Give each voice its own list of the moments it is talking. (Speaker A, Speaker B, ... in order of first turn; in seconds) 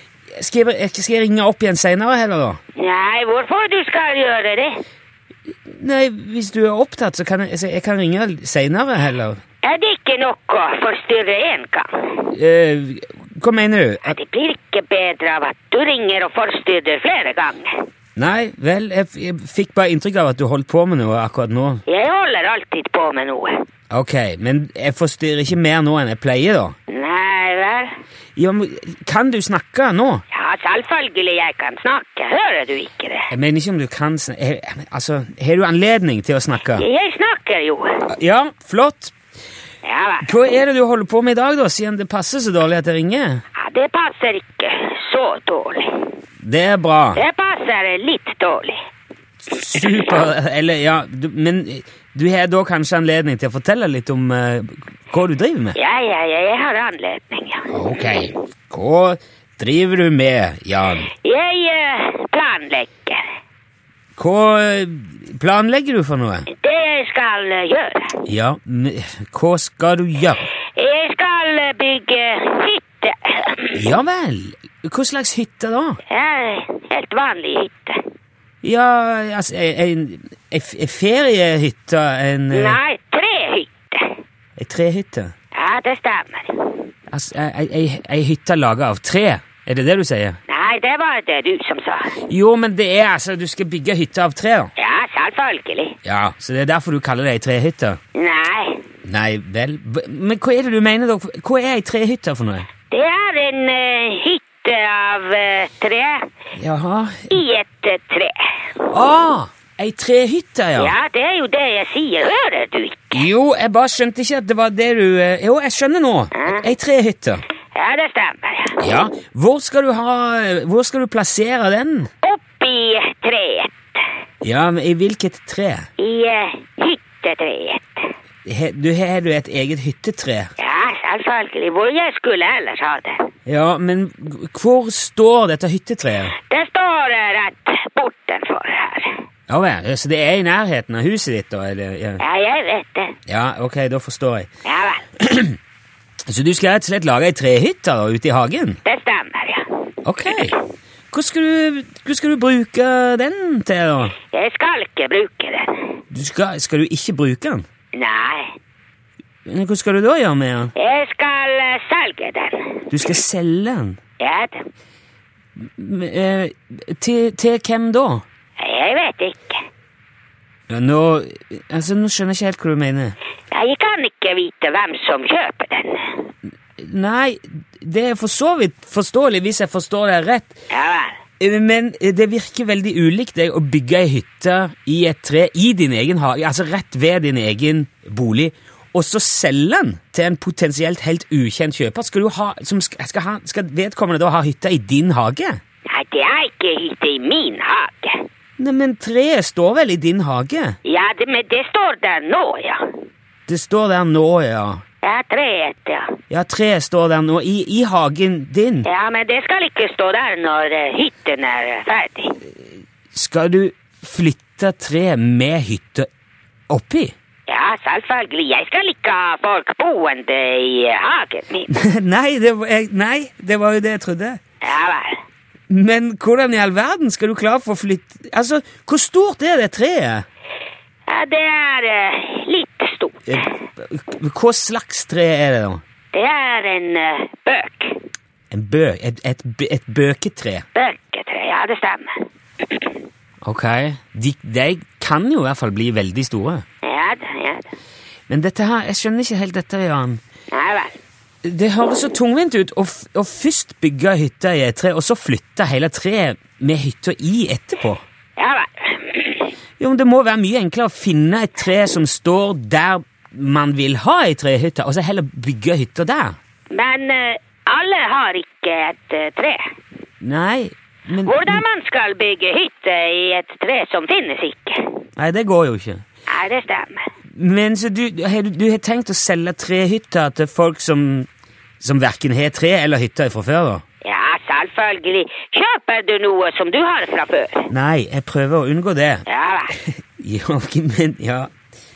Speaker A: 0.3-2.6, 5.7-9.4, 12.3-14.2, 18.2-21.8, 23.9-26.8, 28.4-30.2, 33.3-36.9, 38.1-39.1, 40.2-43.4, 46.4-47.2, 49.4-55.8, 57.7-61.1, 64.2-66.5, 68.3-70.5, 73.8-76.0, 78.6-82.8, 84.6-85.3, 87.1-90.4, 92.3-94.7, 96.0-98.0, 99.1-102.7, 106.6-107.4, 108.9-110.9, 113.1-117.4, 118.8-122.1, 124.4-125.9, 128.5-130.5, 133.5-136.3, 139.5-142.2, 143.3-144.5, 145.2-145.6, 146.3-148.8, 150.1-150.6, 151.1-154.2, 156.1-157.7, 159.5-160.7, 162.9-164.0, 165.6-168.2, 170.7-173.2, 176.8-180.6, 181.4-195.6, 198.6-200.8, 203.5-204.8, 206.3-208.9, 213.1-216.1, 216.7-217.1, 221.7-224.4, 225.7-230.3, 233.3-235.8, 238.5-240.7, 243.4-246.6, 248.3-250.2, 251.4-258.0, 259.8-266.4, 270.2-271.6, 275.2-276.0, 277.4-281.3, 281.8-283.8, 287.7-289.2, 290.2-291.5
Speaker B: 2.8-4.8, 9.6-12.3, 14.0-17.8, 21.9-23.6, 26.9-27.9, 30.3-33.3, 36.7-38.0, 39.8-40.4, 43.6-46.1, 47.1-48.8, 55.8-57.7, 61.2-63.2, 66.5-68.2, 70.8-73.8, 76.1-78.0, 82.5-84.2, 85.5-86.8, 90.5-92.2, 94.8-96.0, 98.2-98.8, 102.9-106.2, 107.3-108.3, 110.8-113.3, 116.3-116.7, 117.7-118.8, 122.2-124.0, 126.0-128.1, 130.6-133.3, 136.4-139.2, 142.2-143.2, 144.7-145.0, 148.8-149.7, 154.3-155.9, 157.9-158.6, 160.8-162.9, 164.2-164.6, 168.6-169.6, 173.5-176.3, 180.7-181.2, 195.9-198.2, 200.8-202.8, 205.0-206.1, 208.8-212.4, 217.5-221.7, 224.6-225.2, 231.1-233.4, 236.1-238.0, 240.8-242.1, 246.8-247.7, 250.5-251.0, 258.4-259.5, 266.7-269.6, 271.2-275.0, 276.3-277.0, 284.0-287.7, 289.3-289.8